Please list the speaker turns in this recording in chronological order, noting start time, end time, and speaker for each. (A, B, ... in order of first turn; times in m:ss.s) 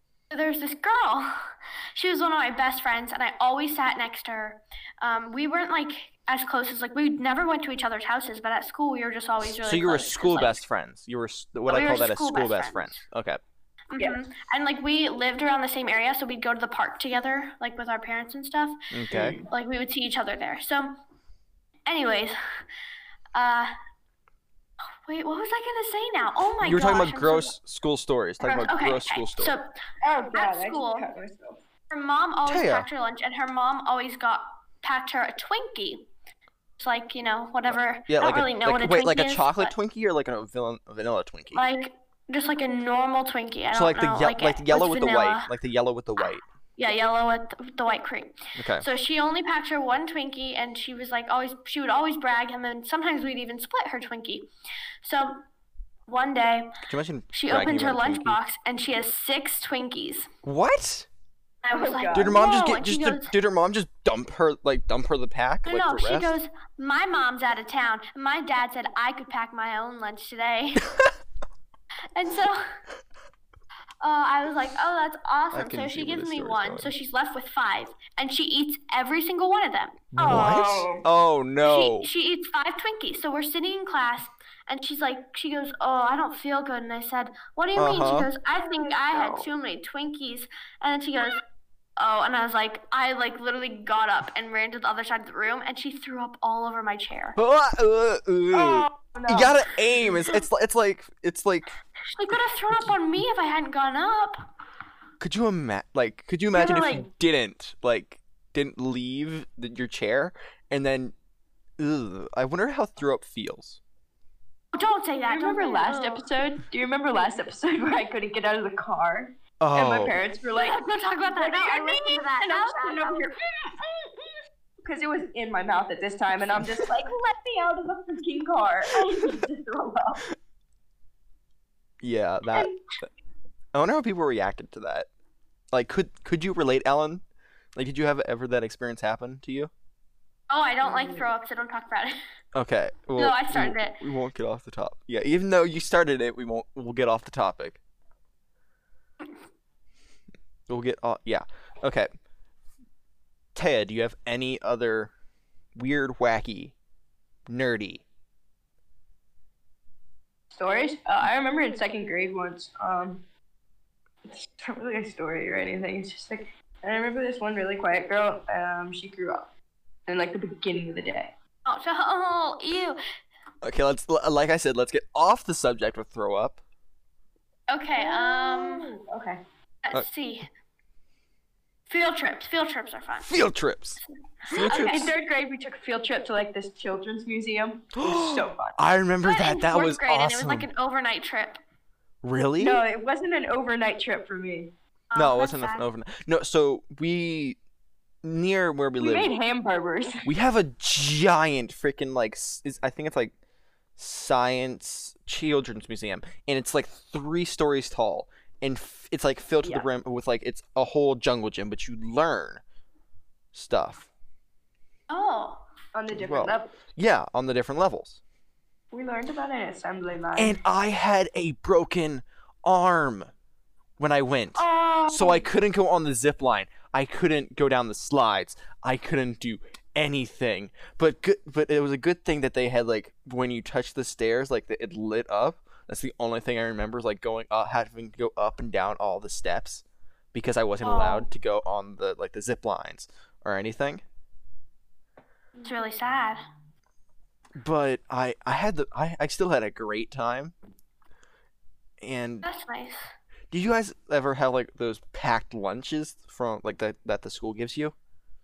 0:00.3-0:10.6 A
0:09.5-0:13.4 B
0:11.7-0:13.0 A
0:13.9-0:18.8 A
0:18.9-0:19.4 B
0:19.1-0:19.5 C
0:19.5-0:21.0 A
0:21.9-0:22.4 A
0:23.3-0:23.7 A
0:25.0-0:27.5 A
0:26.6-0:29.5 B
0:28.4-0:29.7 A
0:30.0-0:31.6 C
0:30.3-0:31.1 A
0:31.9-0:36.0 A
0:32.4-0:32.9 B
0:36.8-0:39.7 A
0:37.7-0:41.6 B
0:41.5-0:45.5 A
0:43.7-0:46.4 B
0:46.8-0:54.5 A
0:48.6-0:48.9 B
0:55.0-0:55.4 A
0:56.1-0:56.7 A
0:56.8-0:58.4 B
0:57.3-1:00.3 A
1:00.4-1:01.1 B
1:01.6-1:03.3 A
1:01.7-1:02.4 C
1:02.1-1:06.4 B
1:05.6-1:10.9 A
1:12.1-1:12.7 A
1:14.0-1:20.0 A
1:15.5-1:16.9 B
1:20.1-1:22.1 B
1:20.2-1:21.0 C
1:21.6-1:31.4 A
1:27.8-1:28.3 B
1:28.6-1:29.5 C
1:32.0-1:37.4 A
1:37.4-1:41.7 B
1:38.5-1:40.3 C
1:42.1-1:44.4 A
1:45.2-1:51.1 B
1:46.5-1:47.1 C
1:51.8-1:53.8 B
1:54.7-1:56.3 A
1:55.3-2:04.3 C
1:59.6-2:00.2 B
2:00.5-2:03.3 A
2:04.8-2:10.3 C
2:12.0-2:12.7 B
2:13.7-2:15.1 B
2:15.7-2:17.2 B
2:17.8-2:19.7 B
2:20.5-2:22.2 A
2:20.8-2:21.3 C
2:22.5-2:27.8 B
2:23.2-2:24.0 A
2:30.7-2:32.1 B
2:33.5-2:35.1 B
2:35.8-2:36.7 B
2:37.5-2:38.0 B
2:40.5-2:43.2 C
2:44.2-2:49.5 C
2:50.1-2:51.3 C
2:51.6-2:53.0 A
2:53.6-2:56.6 B
2:57.7-2:58.9 A
2:57.9-2:59.4 C
2:59.8-3:00.5 A
3:01.9-3:03.3 A
3:03.2-3:05.1 B
3:04.4-3:05.1 A
3:04.6-3:08.8 C
3:08.0-3:10.7 B
3:09.2-3:11.6 A
3:12.2-3:12.8 B
3:12.6-3:14.7 C
3:15.1-3:15.8 A
3:15.2-3:17.6 B
3:18.2-3:19.3 B
3:19.0-3:20.3 C
3:20.2-3:23.3 B
3:24.0-3:32.6 B
3:29.6-3:29.9 C
3:33.5-3:34.1 B
3:35.1-3:35.6 A
3:35.9-3:36.7 C
3:36.1-3:38.2 B
3:38.9-3:40.6 C
3:40.4-3:43.3 B
3:44.0-4:04.0 B
3:44.6-3:45.4 C
4:00.8-4:01.3 A
4:05.6-4:06.4 A
4:07.6-4:10.5 B
4:12.0-4:12.4 B
4:12.4-4:13.1 A
4:13.5-4:17.9 B